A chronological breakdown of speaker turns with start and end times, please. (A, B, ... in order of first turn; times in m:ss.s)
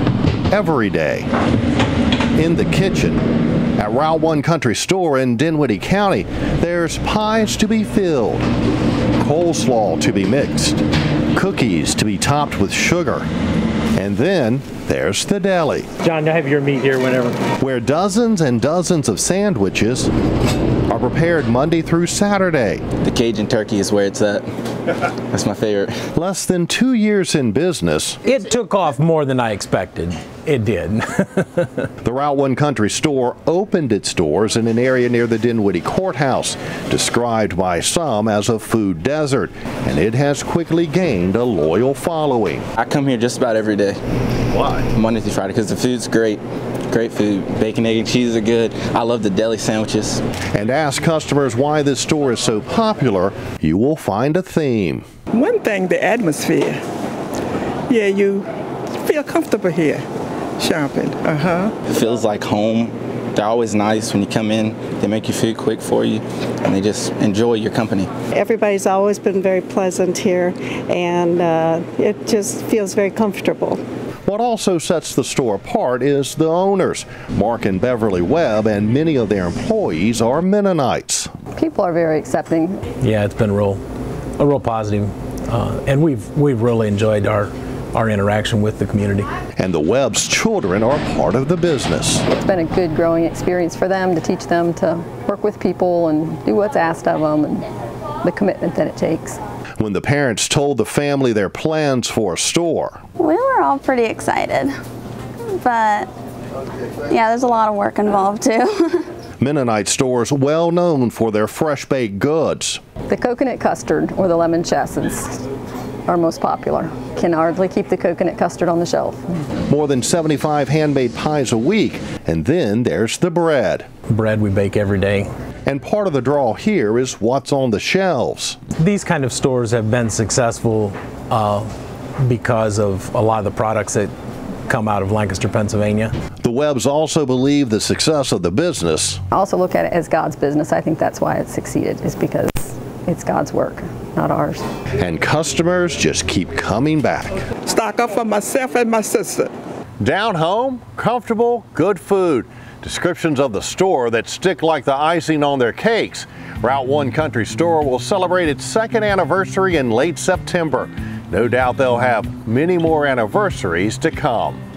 0:00.5-0:01.3 A
0:02.4-0:03.2 A
0:03.8-0:08.4 A
0:09.2-0:10.8 A
0:11.3-0:13.3 A
0:13.9-0:15.9 A
0:16.0-0:17.4 B
0:17.6-0:20.1 A
0:20.9-0:22.8 A
0:23.0-0:24.4 C
0:25.3-0:26.0 C
0:26.1-0:28.2 A
0:28.2-0:31.9 B
0:32.0-0:42.6 A
0:42.8-0:44.0 C
0:44.5-0:44.9 A
0:44.9-0:50.2 C
0:50.5-0:55.0 A
0:55.3-0:56.8 D
0:57.9-0:58.4 D
0:59.0-1:00.0 D
1:00.6-1:01.7 D
1:01.9-1:08.1 C
1:08.3-1:13.8 E
1:14.2-1:21.3 A
1:21.5-1:22.8 F
1:23.0-1:23.8 B
1:24.4-1:29.3 B
1:29.6-1:32.2 A
1:32.3-1:37.6 F
1:38.2-1:39.4 F
1:39.8-1:43.0 A
1:43.2-1:44.7 G
1:45.5-1:46.1 G
1:47.1-1:49.0 G
1:49.4-1:52.8 A
1:53.1-1:55.4 F
1:56.1-1:59.3 F
1:59.7-2:03.9 A
2:04.1-2:05.3 B
2:05.6-2:08.6 A
2:08.8-2:11.7 B
2:12.2-2:14.1 B
2:14.7-2:16.1 B
2:16.4-2:19.2 A
2:19.3-2:24.6 F
2:25.0-2:27.4 A
2:27.7-2:29.5 D
2:30.0-2:44.6 A